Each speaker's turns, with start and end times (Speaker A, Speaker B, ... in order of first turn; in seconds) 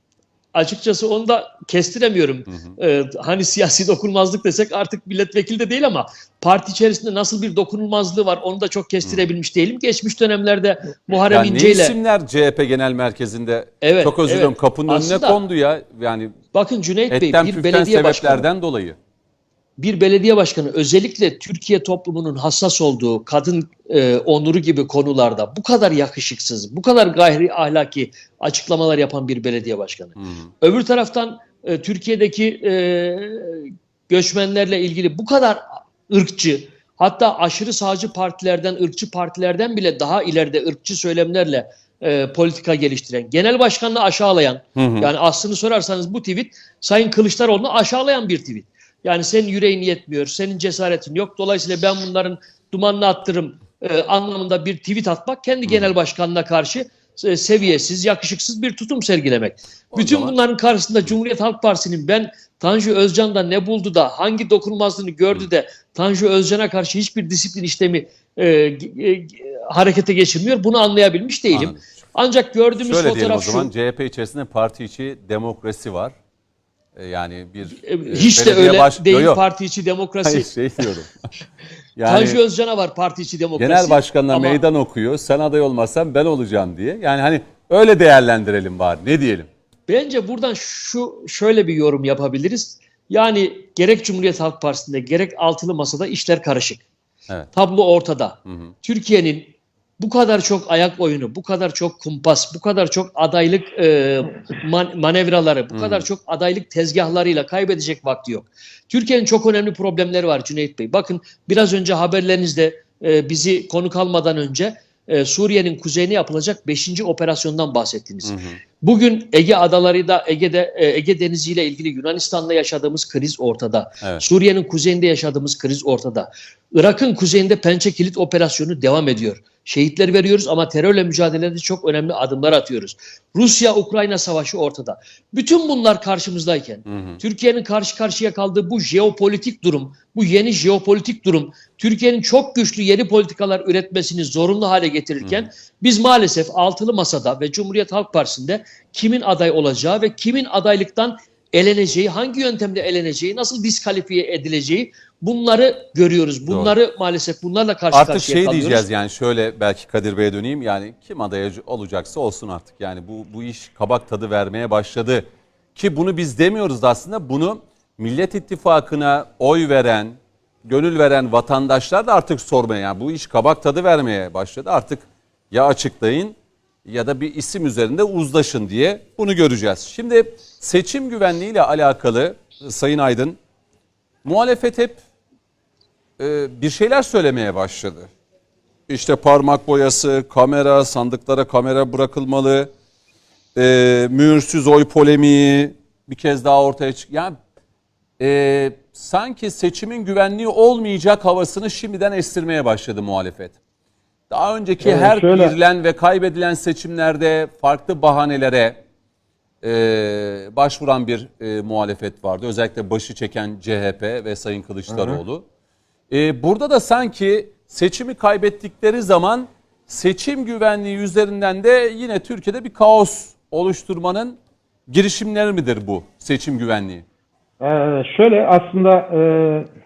Speaker A: 0.5-12.0, 13.8-15.4, 16.5-18.5, 19.8-73.7, 77.7-80.9, 82.1-84.6, 89.9-96.8, 97.5-158.8
Speaker B: 11.3-16.4, 17.1-19.0, 30.2-30.5, 44.8-45.1, 59.9-60.4, 71.5-71.8, 72.8-76.1, 77.0-79.4, 80.2-81.1, 82.0-82.4, 83.6-89.5, 105.7-106.0, 118.2-118.6, 136.9-137.2, 156.5-156.8, 157.9-183.4, 184.2-185.0, 186.2-188.1, 188.9-192.7, 193.6-197.3, 198.2-203.6, 204.3-208.8, 209.6-215.4, 216.1-227.0
Speaker C: 204.8-205.6, 214.9-215.2, 227.6-229.7